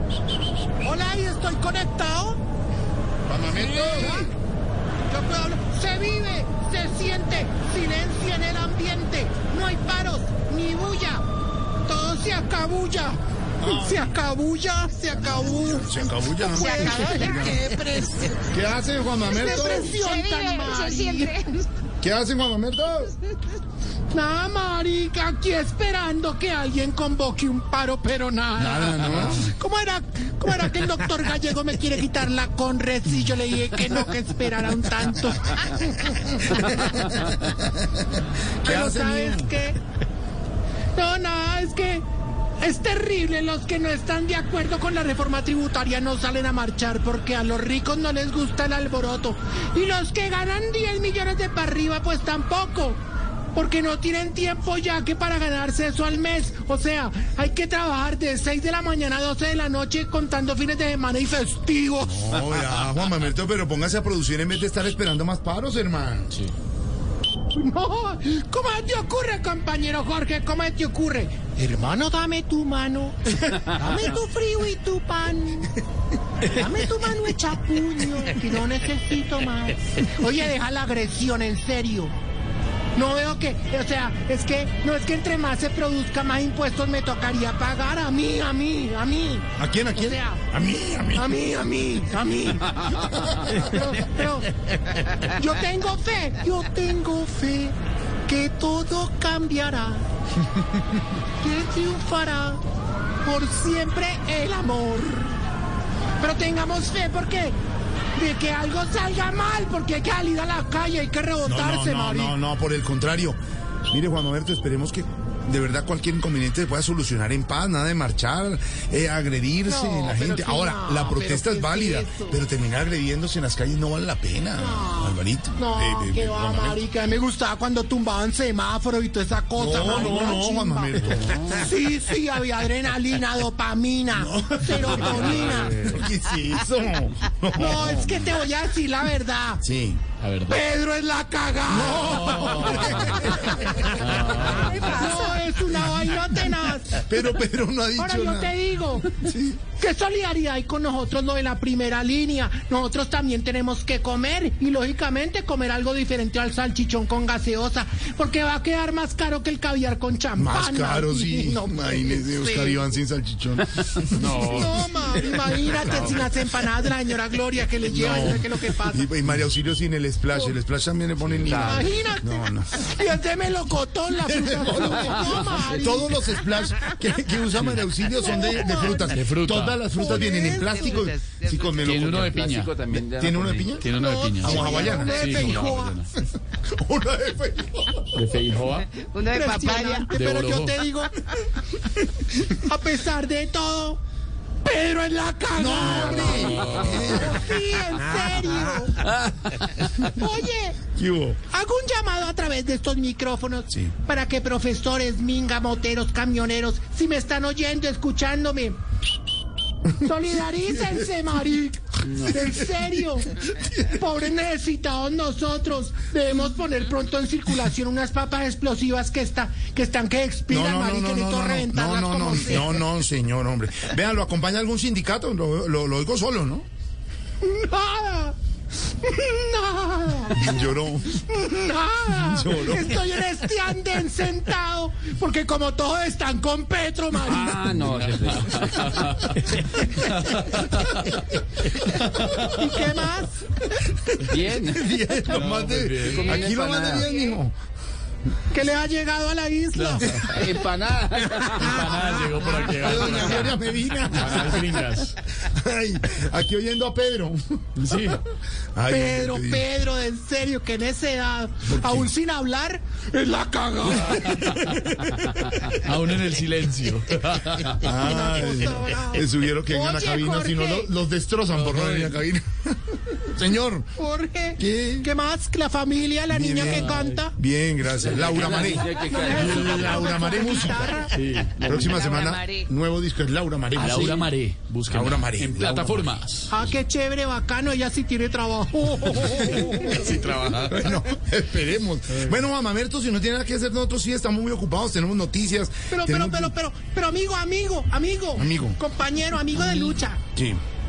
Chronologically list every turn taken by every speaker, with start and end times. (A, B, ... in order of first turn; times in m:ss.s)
0:00.8-0:02.4 A
0:03.3-0:04.3 B
0:03.5-0:04.3 A
0:05.1-0:11.3 A
0:11.9-0:18.2 A
0:13.6-0:14.1 B
0:15.1-0:17.7 B
0:16.6-0:18.4 C
0:18.5-0:20.0 B
0:19.2-0:21.4 A
0:19.4-0:21.7 C
0:22.0-0:23.1 B
0:24.1-0:37.4 A
0:28.6-0:29.5 B
0:38.6-0:39.8 A
0:38.6-0:39.6 B
0:41.0-0:42.0 A
0:42.6-0:53.0 A
0:53.6-1:02.6 A
1:02.0-1:06.4 B
1:07.6-1:15.7 A
1:16.4-1:22.1 A
1:23.0-1:30.4 A
1:29.6-1:31.4 B
1:31.1-1:34.5 A
1:33.1-1:33.6 B
1:35.1-1:40.1 A
1:41.4-1:42.6 A
1:43.2-1:45.4 A
1:46.2-1:47.6 A
1:48.2-1:52.4 A
1:51.4-1:53.4 B
1:53.9-2:06.8 B
1:59.7-2:02.4 A
2:04.6-2:15.9 A
2:09.6-2:11.6 B
2:14.1-2:18.3 B
2:15.0-2:16.0 D
2:17.5-2:19.6 A
2:19.6-2:20.0 B
2:20.2-2:20.7 D
2:20.5-2:27.0 A
2:21.7-2:23.9 B
2:22.2-2:22.8 D
2:23.8-2:25.0 D
2:26.9-2:28.5 B
2:27.9-2:42.9 A
2:29.1-2:29.6 B
2:40.4-2:44.7 B
2:44.0-2:45.0 D
2:44.4-2:49.1 A
2:45.2-2:46.0 B
2:45.7-2:46.3 D
2:47.9-2:52.8 B
2:51.2-2:51.8 D
2:51.4-2:51.8 E
2:51.6-2:56.3 A
2:54.3-3:02.3 B
2:58.0-2:59.2 A
2:59.0-2:59.8 D
2:59.9-3:01.0 A
3:00.0-3:01.8 C
3:01.8-3:02.7 D
3:02.0-3:03.9 E
3:03.1-3:03.9 B
3:03.8-3:06.1 D
3:03.9-3:06.0 A
3:04.4-3:05.5 B
3:06.5-3:08.1 B
3:08.1-3:08.9 D
3:09.0-3:10.1 C
3:09.2-3:11.5 A
3:10.1-3:10.8 D
3:12.4-3:14.0 A
3:14.6-3:19.0 A
3:15.5-3:17.6 B
3:16.4-3:17.2 D
3:20.0-3:20.8 A
3:20.9-3:21.4 B
3:21.5-3:28.8 A
3:30.0-3:42.8 A
3:40.5-3:46.7 B
3:47.4-3:48.4 A
3:49.0-3:50.7 A
3:50.3-3:51.3 B
3:51.2-3:57.8 A
3:52.2-3:53.0 B
3:57.2-3:59.0 E
3:57.7-4:01.2 D
4:02.0-4:02.7 D
4:02.4-4:03.7 A
4:04.1-4:07.5 B
4:04.3-4:05.5 E
4:05.3-4:06.2 D
4:06.2-4:07.1 E
4:08.5-4:10.2 A
4:09.7-4:10.3 D
4:10.2-4:11.9 E
4:11.5-4:15.2 D
4:11.7-4:12.0 A
4:12.7-4:17.6 B
4:17.8-4:18.2 D
4:18.8-4:19.7 B
4:18.9-4:25.1 A
4:21.7-4:22.1 B
4:24.2-4:27.9 D
4:27.7-4:33.9 B
4:27.9-4:30.9 A
4:31.5-4:32.2 D
4:34.0-4:37.4 A
4:34.6-4:35.1 B
4:36.3-4:41.1 B
4:36.7-4:37.2 D
4:38.0-4:39.8 E
4:38.9-4:41.1 A
4:39.4-4:39.8 D
4:41.1-4:42.0 D
4:41.6-4:44.3 B
4:41.7-4:42.7 C
4:43.8-4:46.5 D
4:44.9-4:46.2 B
4:46.5-4:50.2 A
4:49.7-4:51.0 D
4:50.6-4:56.5 B
4:55.9-5:00.2 A
4:58.4-4:58.8 B
5:00.4-5:00.6 B